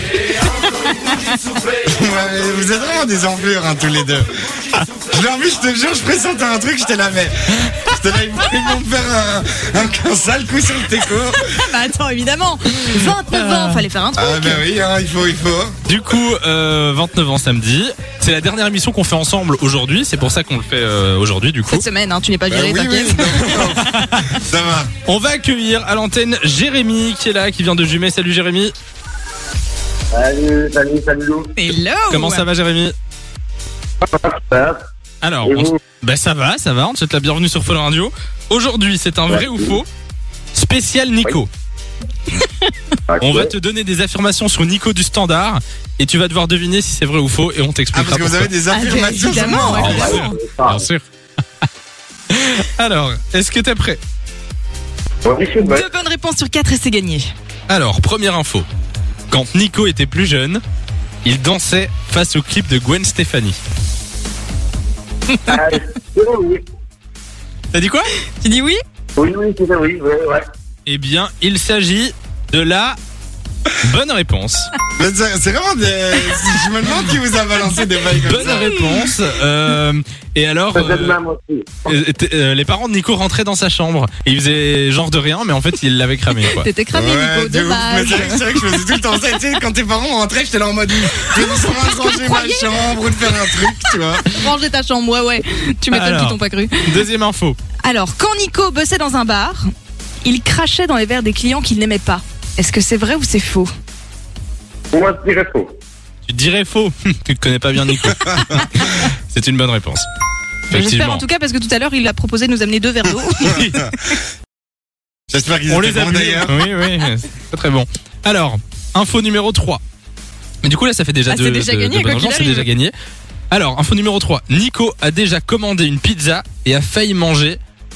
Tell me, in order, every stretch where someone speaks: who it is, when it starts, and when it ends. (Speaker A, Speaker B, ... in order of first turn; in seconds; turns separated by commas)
Speaker A: 0.5-1.4, Speaker B: 1.8-11.7, Speaker A: 11.3-14.6, Speaker C: 12.9-13.8, Speaker B: 14.2-15.7, Speaker C: 15.8-21.8, Speaker A: 21.7-23.6, Speaker B: 22.5-24.9, Speaker C: 23.4-24.2, Speaker C: 25.1-28.7, Speaker D: 30.1-31.5, Speaker A: 31.6-32.5, Speaker C: 32.1-32.9, Speaker D: 34.0-34.8, Speaker C: 35.2-39.9, Speaker D: 35.4-35.7, Speaker D: 39.3-39.8, Speaker C: 40.5-41.5, Speaker D: 43.1-43.5, Speaker C: 43.2-48.5, Speaker B: 47.9-50.2, Speaker A: 48.7-50.3, Speaker C: 49.3-51.0, Speaker D: 49.8-50.8, Speaker C: 52.3-54.0, Speaker D: 55.2-55.9, Speaker A: 55.6-57.3, Speaker C: 57.7-58.7, Speaker C: 59.3-60.6, Speaker C: 61.2-63.6, Speaker D: 65.5-66.6, Speaker C: 67.7-68.1, Speaker A: 68.3-68.8, Speaker D: 69.2-70.4, Speaker C: 70.8-73.0, Speaker C: 73.8-74.7, Speaker B: 75.0-78.8, Speaker C: 78.2-81.2, Speaker A: 78.5-79.0, Speaker D: 80.7-81.8, Speaker C: 81.8-86.7, Speaker A: 86.5-88.8, Speaker B: 86.9-94.3, Speaker A: 91.2-93.5, Speaker A: 94.3-96.9, Speaker C: 95.9-97.6, Speaker A: 97.8-99.6, Speaker A: 100.2-103.7, Speaker D: 104.9-105.7, Speaker C: 106.2-110.0, Speaker B: 108.1-108.6, Speaker C: 110.7-111.2, Speaker A: 110.7-114.2, Speaker B: 113.5-114.1, Speaker B: 115.3-116.6, Speaker C: 115.7-119.8, Speaker C: 120.6-122.9, Speaker A: 121.3-122.7, Speaker C: 123.5-127.6